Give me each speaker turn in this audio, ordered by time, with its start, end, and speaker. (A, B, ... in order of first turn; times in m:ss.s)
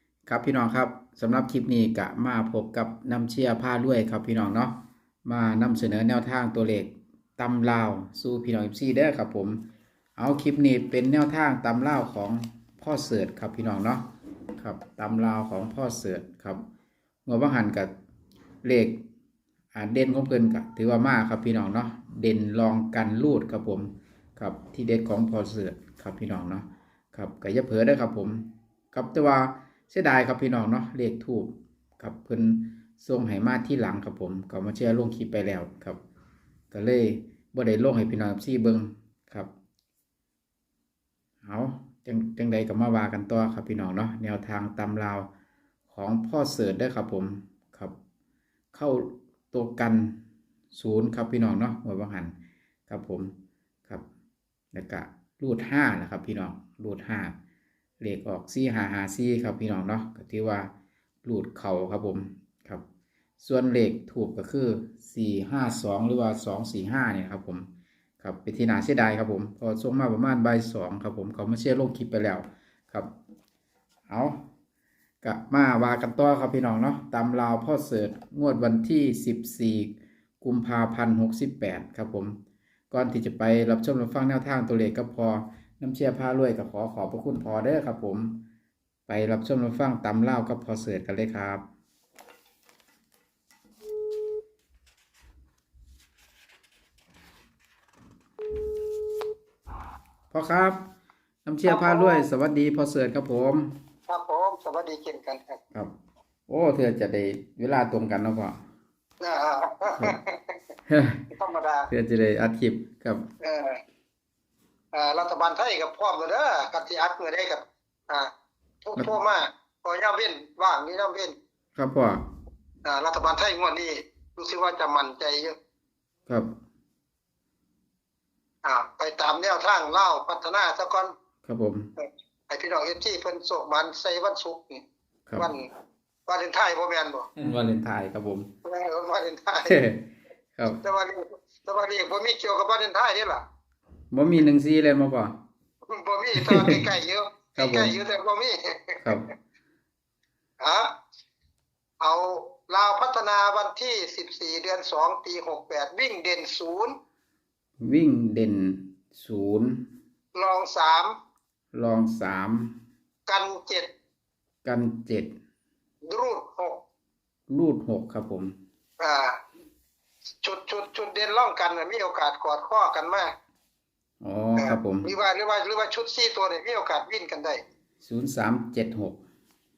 0:00.2-0:04.7 A
0:05.2-0:09.6 A
0:10.2-0:14.0 A
0:14.6-0:16.6 A
0:17.2-0:17.9 A
0:18.6-0:19.0 A
0:19.7-0:36.0 A
0:36.7-0:39.5 A
0:41.4-0:45.3 A
0:45.9-0:47.9 A
0:48.7-0:50.1 A
0:50.7-0:52.3 A
0:52.9-0:53.3 A
0:54.7-0:57.3 A
0:58.0-1:00.7 A
1:01.2-1:02.8 A
1:03.4-1:07.7 A
1:08.2-1:13.1 A
1:14.1-1:14.4 A
1:15.2-1:22.4 A
1:22.9-1:28.4 A
1:29.1-1:31.6 A
1:40.3-1:40.8 A
1:41.4-1:43.7 A
1:41.6-1:42.3 B
1:44.1-1:45.6 B
1:46.5-1:48.6 A
1:49.2-1:50.6 B
1:50.9-1:51.2 A
1:51.3-1:51.9 B
1:51.9-1:53.2 A
1:53.4-1:53.8 B
1:54.9-1:58.3 B
1:58.8-2:01.4 B
2:01.8-2:02.2 A
2:02.8-2:05.6 B
2:08.6-2:11.1 B
2:11.4-2:11.9 A
2:12.0-2:14.8 B
2:15.4-2:15.7 B
2:16.3-2:17.3 B
2:17.4-2:18.5 A
2:18.6-2:19.8 B
2:19.6-2:20.8 A
2:20.8-2:23.4 B
2:24.1-2:25.3 A
2:25.9-2:29.1 B
2:26.4-2:26.8 A
2:27.6-2:28.0 A
2:29.0-2:29.3 A
2:30.6-2:30.9 B
2:32.0-2:36.9 B
2:37.8-2:39.8 A
2:40.3-2:41.1 B
2:41.7-2:42.7 A
2:43.3-2:43.9 B
2:44.6-2:45.3 A
2:46.0-2:46.8 B
2:47.5-2:48.5 A
2:49.0-2:49.4 B
2:50.4-2:53.3 B
2:54.2-2:55.1 A
2:54.6-2:57.6 B
2:58.0-2:59.2 A